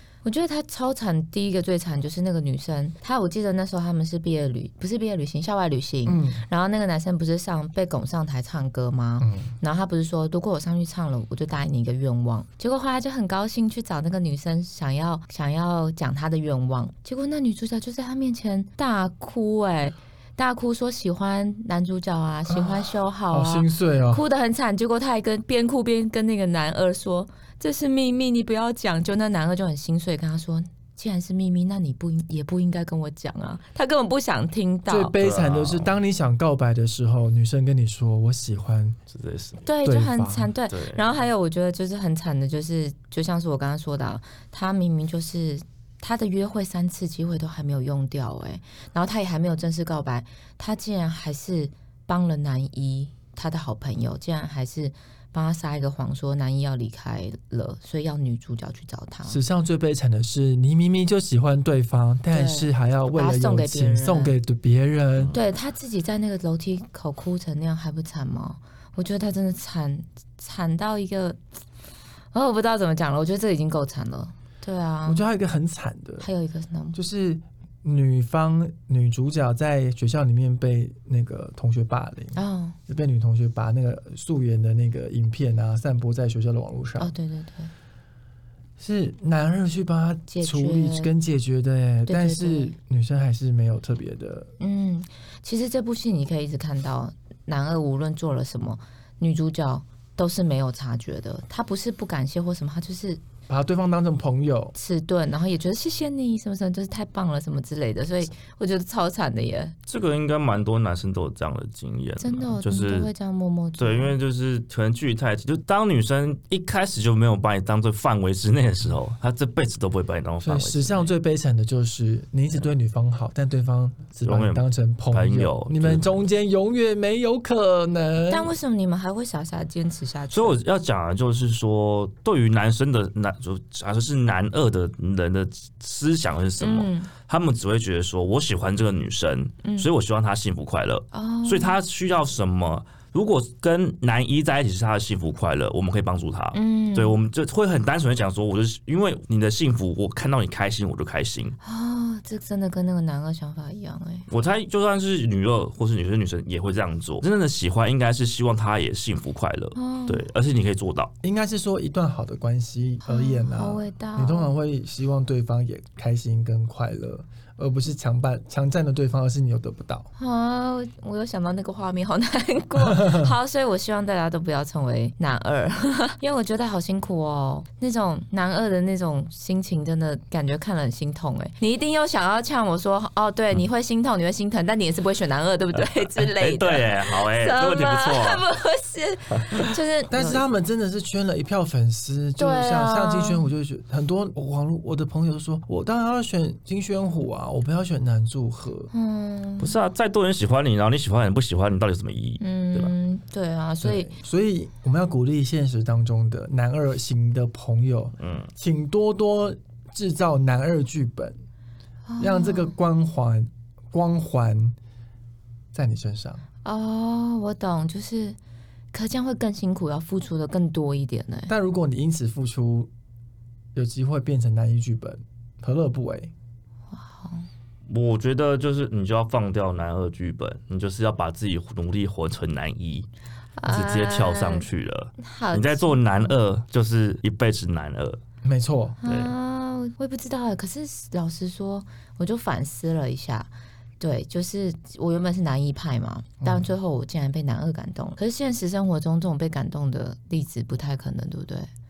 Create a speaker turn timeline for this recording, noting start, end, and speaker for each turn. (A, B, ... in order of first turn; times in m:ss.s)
0:00.2-0:35.1 A
0:06.1-0:06.4 B
0:09.2-0:09.5 B
0:22.5-0:24.2 B
0:34.9-0:39.0 B
0:35.2-0:35.9 C
0:39.1-0:39.6 C
0:39.6-0:59.4 A
0:39.8-0:40.5 B
0:40.7-0:41.0 C
0:59.3-1:05.4 B
1:02.3-1:04.4 A
1:05.3-1:11.4 A
1:12.3-1:15.2 A
1:15.1-1:16.3 B
1:16.2-1:17.0 A
1:16.9-1:22.4 B
1:22.4-1:22.8 A
1:22.9-1:27.1 B
1:27.0-1:27.7 A
1:28.8-1:34.5 B
1:30.3-1:31.1 A
1:32.1-1:32.7 A
1:34.6-1:43.2 A
1:43.5-1:44.7 B
1:44.7-1:49.7 A
1:49.9-1:53.1 C
1:52.2-1:54.1 A
1:53.8-2:01.1 C
2:00.4-2:08.5 B
2:04.2-2:06.2 C
2:08.3-2:10.6 A
2:10.3-2:31.6 C
2:16.6-2:17.1 A
2:21.1-2:21.8 A
2:26.5-2:27.2 A
2:31.6-2:34.3 A
2:34.3-2:41.1 C
2:39.7-2:40.3 A
2:41.2-2:50.1 B
2:43.0-2:44.5 A
2:50.2-3:10.4 A
2:52.9-2:53.3 B
3:05.7-3:08.4 C
3:10.1-3:18.9 B
3:12.4-3:13.5 A
3:18.9-3:19.7 A
3:19.6-3:22.9 C
3:22.4-3:24.1 A
3:23.8-3:31.4 B
3:28.2-3:28.5 C
3:32.1-3:32.7 A
3:32.2-3:34.8 B
3:35.7-3:36.4 B
3:36.6-3:38.4 A
3:38.9-3:41.5 A
3:41.5-3:42.9 B
3:43.7-3:46.3 B
3:46.9-3:47.4 A
3:47.9-3:53.1 C
3:53.6-3:54.7 A
3:53.6-3:58.2 C
3:55.2-3:56.4 A
3:58.4-3:59.0 B
3:59.0-4:11.7 A
3:59.1-3:59.3 C
4:06.4-4:06.7 B